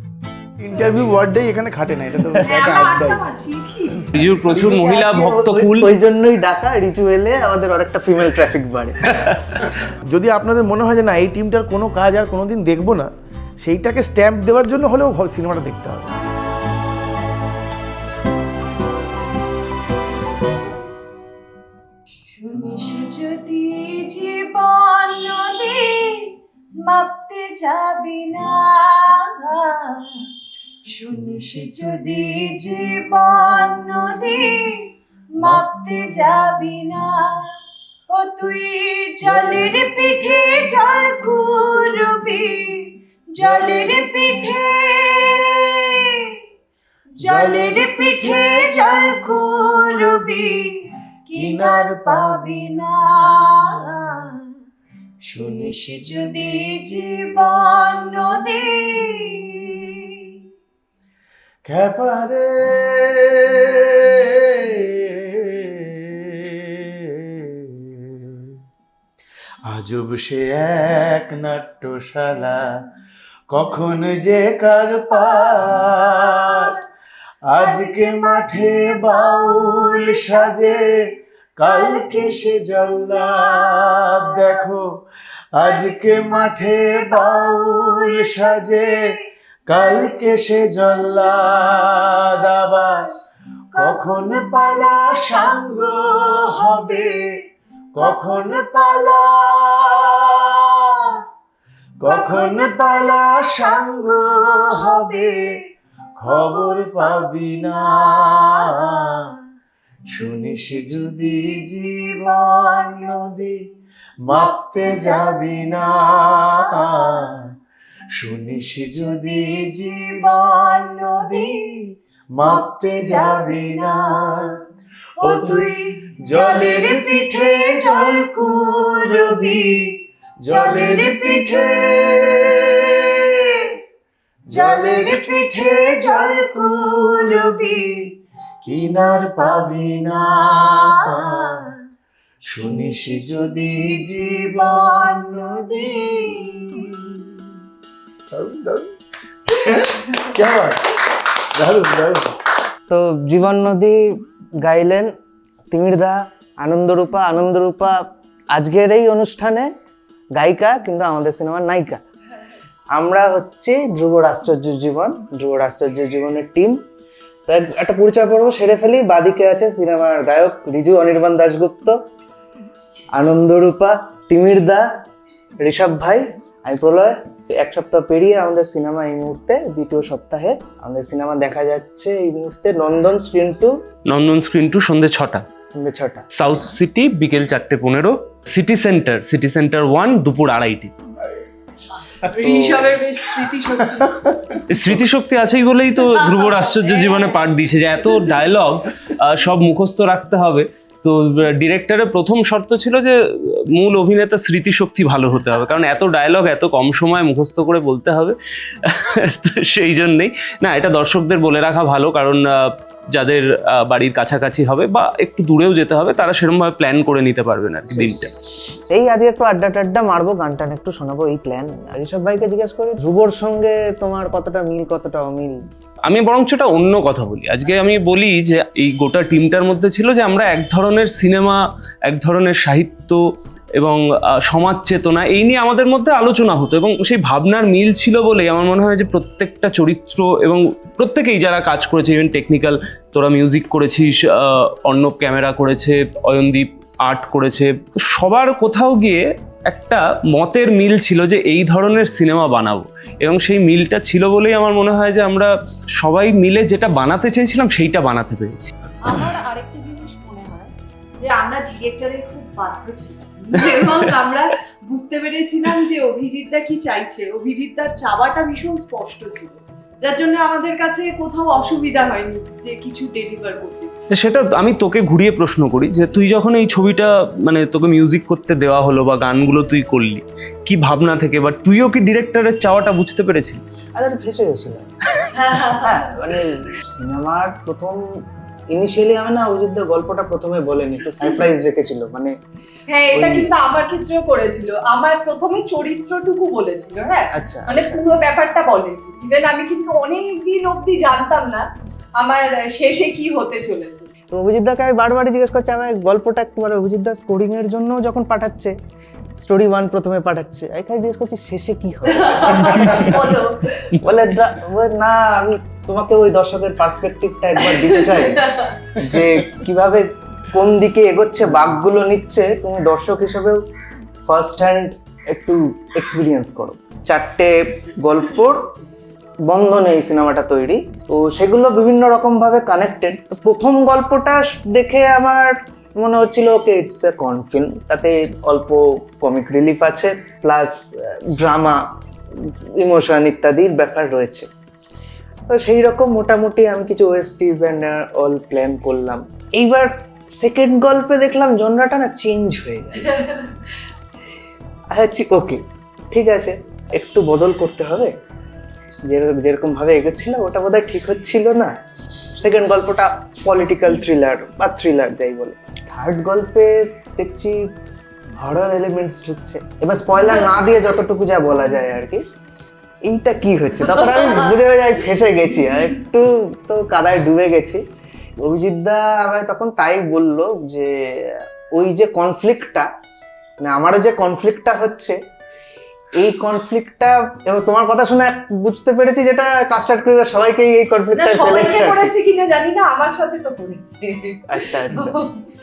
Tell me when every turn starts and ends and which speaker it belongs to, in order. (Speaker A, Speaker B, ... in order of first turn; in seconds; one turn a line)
Speaker A: 0.6-3.2
Speaker B: 2.4-4.1
Speaker C: 4.1-5.9
Speaker D: 4.5-9.1
Speaker C: 9.1-9.4
Speaker A: 10.1-16.1
Speaker B: 22.3-26.3
Speaker B: 26.8-30.2
Speaker B: 30.9-37.4
Speaker B: 38.1-46.3
Speaker B: 47.2-54.4
Speaker A: 47.2-48.1
Speaker A: 51.4-52.2
Speaker B: 55.2-60.3
Speaker A: 61.6-68.5
Speaker A: 69.7-72.6
Speaker A: 73.5-76.7
Speaker B: 76.4-76.8
Speaker A: 77.5-80.8
Speaker B: 77.6-80.8
Speaker A: 81.6-84.8
Speaker B: 81.6-82.4
Speaker B: 83.1-84.4
Speaker A: 85.6-88.9
Speaker B: 85.6-86.2
Speaker B: 86.9-89.2
Speaker A: 89.7-93.0
Speaker B: 89.7-91.4
Speaker B: 93.7-97.3
Speaker A: 93.8-97.2
Speaker A: 97.9-100.7
Speaker B: 98.0-99.0
Speaker A: 102.0-105.3
Speaker B: 102.0-105.5
Speaker A: 106.2-109.0
Speaker B: 106.3-108.9
Speaker A: 110.1-113.6
Speaker B: 112.3-113.2
Speaker A: 114.3-117.4
Speaker B: 114.3-115.7
Speaker B: 116.6-117.3
Speaker A: 118.2-121.5
Speaker B: 119.4-121.6
Speaker A: 122.3-124.5
Speaker B: 122.4-124.4
Speaker B: 125.2-129.5
Speaker A: 125.2-125.7
Speaker A: 126.2-129.7
Speaker A: 130.4-133.0
Speaker B: 130.5-133.7
Speaker B: 134.5-137.9
Speaker A: 134.5-137.6
Speaker A: 138.6-141.6
Speaker B: 140.6-141.7
Speaker A: 142.5-146.3
Speaker B: 143.1-144.0
Speaker B: 144.6-146.9
Speaker A: 148.3-148.9
Speaker A: 149.5-151.0
Speaker A: 151.6-152.3
Speaker D: 152.9-154.0
Speaker D: 154.6-155.1
Speaker D: 155.7-159.7
Speaker D: 160.3-162.0
Speaker D: 162.9-166.8
Speaker D: 167.5-172.0
Speaker D: 173.2-174.8
Speaker D: 175.6-183.7
Speaker C: 184.1-185.4
Speaker D: 185.8-186.2
Speaker C: 186.3-190.9
Speaker B: 192.1-194.6
Speaker C: 194.7-218.3
Speaker B: 196.1-197.4
Speaker D: 218.9-225.6
Speaker C: 226.1-233.2
Speaker C: 233.8-258.7
Speaker B: 259.0-273.9
Speaker C: 263.6-264.1
Speaker C: 274.1-283.6
Speaker D: 284.0-284.9
Speaker B: 285.3-286.1
Speaker D: 285.7-288.0
Speaker D: 288.7-292.3
Speaker B: 292.9-301.7
Speaker D: 293.1-293.5
Speaker D: 297.3-298.1
Speaker B: 302.2-304.1
Speaker D: 304.3-308.8
Speaker D: 309.4-313.2
Speaker B: 312.1-314.0
Speaker D: 314.0-323.6
Speaker B: 317.6-318.8
Speaker D: 324.2-328.7
Speaker D: 329.4-341.8
Speaker D: 342.3-344.5
Speaker D: 345.4-353.2
Speaker B: 353.1-353.5
Speaker D: 354.9-358.1
Speaker D: 359.1-361.8
Speaker D: 362.3-367.7
Speaker D: 368.4-372.2
Speaker D: 373.0-377.8
Speaker B: 374.1-374.6
Speaker D: 378.4-382.9
Speaker D: 383.6-385.2
Speaker D: 386.1-392.1
Speaker B: 391.1-395.4
Speaker D: 394.5-395.2